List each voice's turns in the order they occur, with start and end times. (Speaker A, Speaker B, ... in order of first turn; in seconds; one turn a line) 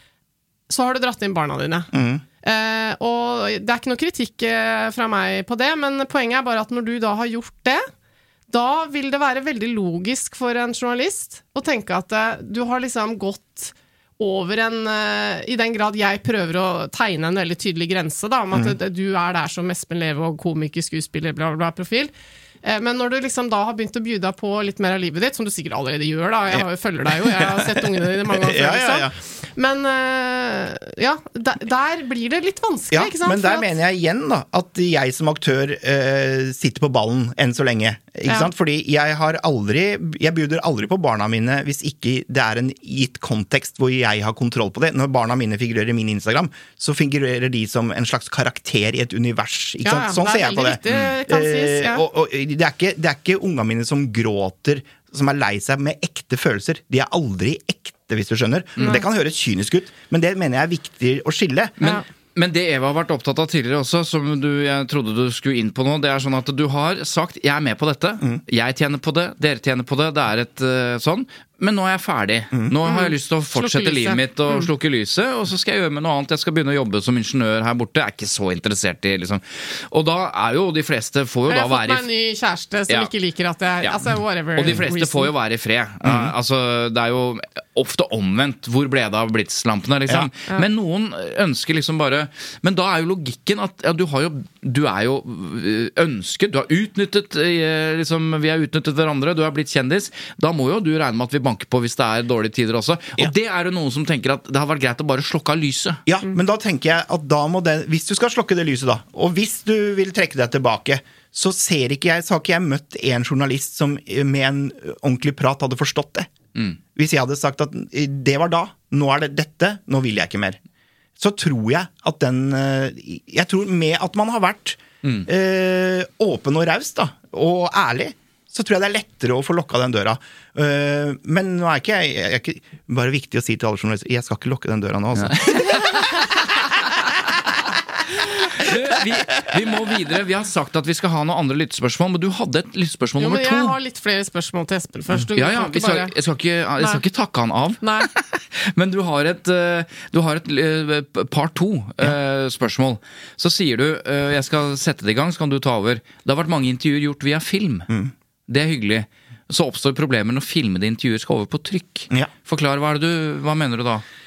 Speaker A: 0.7-7.8
Speaker B: 1.9-2.2
Speaker A: 8.5-22.1
Speaker A: 22.6-33.7
Speaker B: 26.5-29.1
Speaker B: 32.9-61.8
Speaker A: 38.2-38.5
Speaker A: 49.8-52.0
Speaker C: 61.8-82.1
Speaker A: 72.8-74.7
Speaker A: 81.5-85.3
Speaker C: 83.8-106.0
Speaker B: 86.0-86.3
Speaker B: 106.1-116.3
Speaker B: 116.9-120.6
Speaker B: 121.2-136.2
Speaker C: 135.2-135.6
Speaker C: 138.6-143.8
Speaker A: 143.2-146.1
Speaker C: 145.3-157.9
Speaker A: 147.8-148.1
Speaker C: 158.5-164.0